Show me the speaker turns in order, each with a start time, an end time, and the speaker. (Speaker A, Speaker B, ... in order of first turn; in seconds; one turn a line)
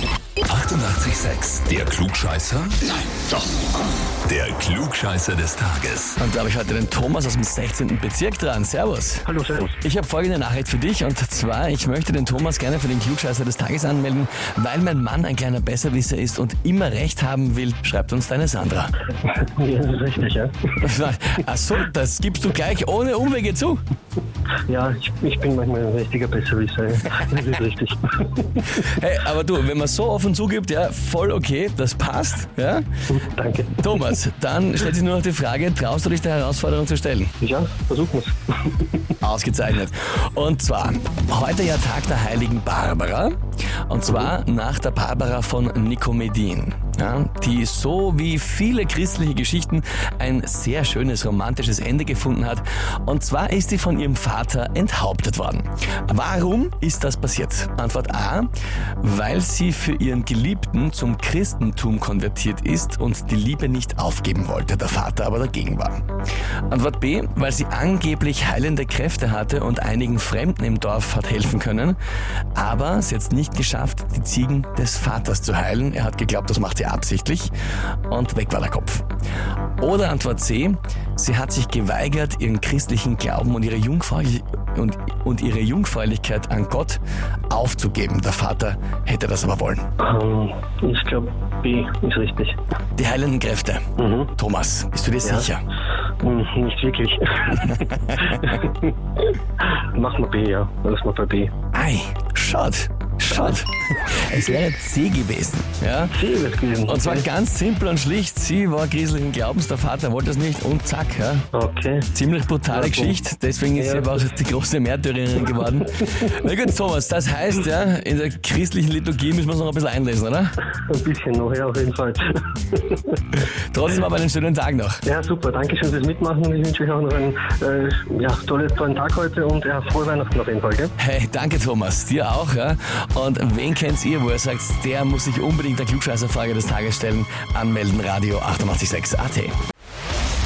Speaker A: 0.5-2.8
Speaker A: 4.2-6.2
Speaker B: 6.2-9.3
Speaker C: 9.3-9.8
Speaker B: 9.8-18.9
Speaker C: 19.2-20.5
Speaker B: 20.8-23.8
Speaker C: 24.7-28.8
Speaker B: 28.7-32.9
Speaker C: 33.1-34.2
Speaker B: 33.8-37.3
Speaker C: 37.4-39.1
Speaker B: 39.2-43.4
Speaker B: 43.9-66.0
Speaker B: 66.7-72.0
Speaker B: 72.5-77.5
Speaker B: 78.1-79.1
Speaker B: 79.8-89.9
Speaker C: 90.0-92.6
Speaker B: 93.0-95.6
Speaker C: 94.0-94.3
Speaker C: 95.2-95.5
Speaker C: 96.2-101.5
Speaker B: 97.6-98.5
Speaker B: 101.7-106.2
Speaker C: 106.1-107.3
Speaker B: 106.9-111.5
Speaker C: 111.5-112.1
Speaker B: 112.1-120.6
Speaker C: 112.7-113.2
Speaker C: 113.8-114.2
Speaker C: 120.9-123.2
Speaker B: 123.3-125.0
Speaker C: 125.0-130.9
Speaker B: 131.0-139.6